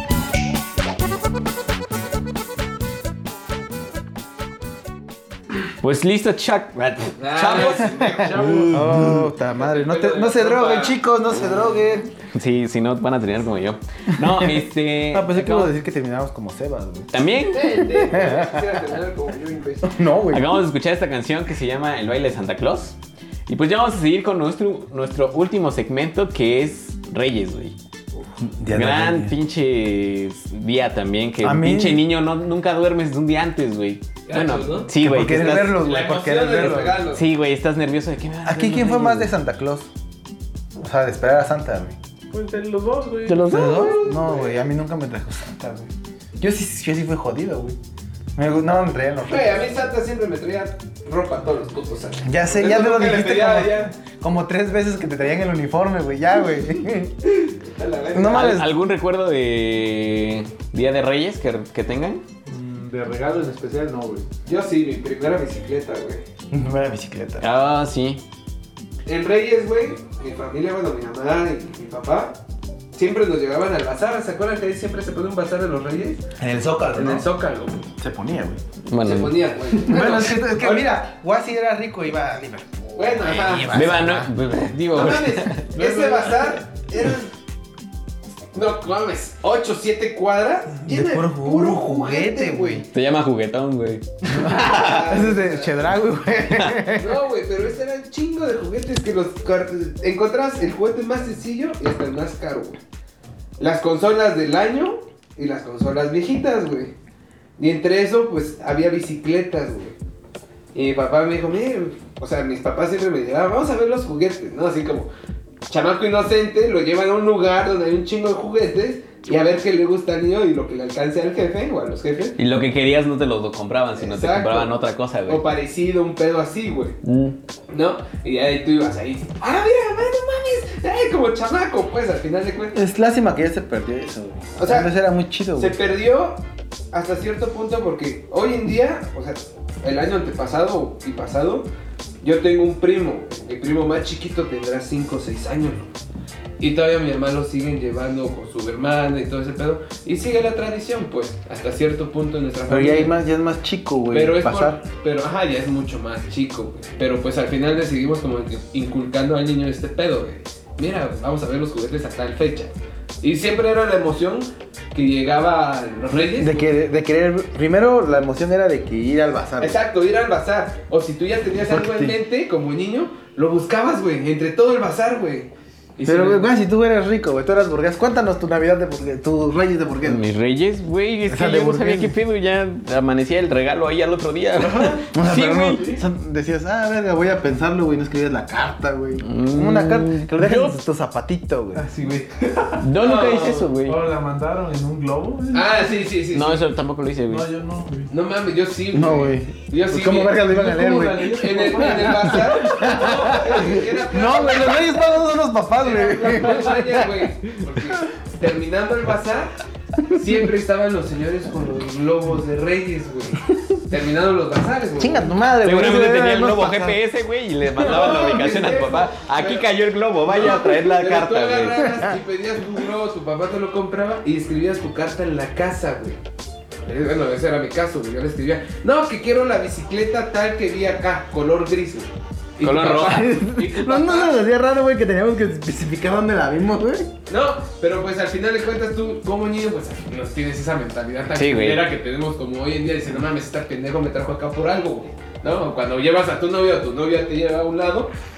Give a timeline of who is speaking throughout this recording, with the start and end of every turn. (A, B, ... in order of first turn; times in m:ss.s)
0:05.8-0:09.1 A
0:07.2-0:08.7 B
0:08.2-0:08.8 C
0:08.6-0:12.1 D
0:09.5-0:11.0 B
0:12.4-0:15.7 A
0:14.2-0:17.1 D
0:17.1-0:17.9 A
0:17.5-0:20.0 B
0:18.1-0:18.7 D
0:19.8-0:20.6 D
0:20.3-0:23.0 A
0:23.5-0:27.8 A
0:28.4-0:29.3 D
0:28.7-0:35.8 A
0:31.4-0:32.0 D
0:34.3-0:37.2 B
0:34.9-0:37.1 D
0:37.1-0:39.3 A
0:38.4-0:39.9 D
0:40.8-0:42.0 D
0:42.3-0:43.8 C
0:43.3-0:44.0 A
0:43.5-0:47.8 D
0:43.7-0:44.6 B
0:48.4-0:49.7 D
0:49.3-0:53.9 B
0:52.2-0:57.2 D
0:57.2-0:58.6 B
0:58.1-0:58.7 D
0:58.3-1:02.2 A
1:02.5-1:04.3 C
1:04.5-1:06.2 B
1:06.5-1:07.4 D
1:07.4-1:08.2 A
1:09.0-1:12.4 B
1:12.9-1:16.2 B
1:16.4-1:17.3 D
1:16.9-1:17.9 B
1:18.0-1:18.6 D
1:18.9-1:19.4 A
1:19.0-1:20.9 B
1:19.8-1:24.3 D
1:23.0-1:23.8 B
1:23.7-1:25.7 A
1:24.9-1:27.3 B
1:25.8-1:26.4 D
1:28.5-1:32.9 B
1:30.8-1:32.8 D
1:32.9-1:35.1 A
1:34.3-1:37.2 D
1:34.4-1:35.9 B
1:37.0-1:42.8 B
1:43.6-1:46.9 B
1:47.6-1:50.0 B
1:50.7-1:55.1 B
1:55.7-2:02.4 B
2:02.4-2:05.4 A
2:04.0-2:04.8 B
2:05.3-2:07.0 B
2:07.0-2:07.4 A
2:07.7-2:12.8 B
2:12.7-2:15.8 D
2:14.6-2:15.0 B
2:15.6-2:16.4 B
2:16.9-2:21.7 B
2:22.2-2:25.9 B
2:26.6-2:33.2 B
2:32.7-2:34.8 D
2:34.1-2:46.7 B
2:46.1-2:49.8 D
2:49.6-2:56.5 B
2:51.6-2:52.2 D
2:56.0-3:00.2 D
3:00.0-3:05.9 A
3:01.3-3:02.2 D
3:04.6-3:05.1 C
3:05.1-3:11.9 D
3:05.7-3:06.0 C
3:09.2-3:10.8 A
3:11.8-3:12.9 C
3:12.8-3:14.0 A
3:13.0-3:13.7 B
3:13.8-3:15.9 C
3:15.5-3:16.7 B
3:16.3-3:17.5 A
3:17.3-3:18.1 C
3:18.1-3:20.5 B
3:18.9-3:27.0 D
3:20.3-3:23.8 C
3:21.4-3:25.2 B
3:25.7-3:29.5 B
3:30.1-3:35.4 B
3:35.0-3:37.0 D
3:35.6-3:41.8 A
3:37.8-3:39.7 B
3:40.2-3:46.2 B
3:41.8-3:42.1 D
3:46.8-3:54.4 B
3:52.6-3:53.2 A
3:52.9-3:57.1 D
3:57.3-4:08.1 B
4:01.4-4:01.8 A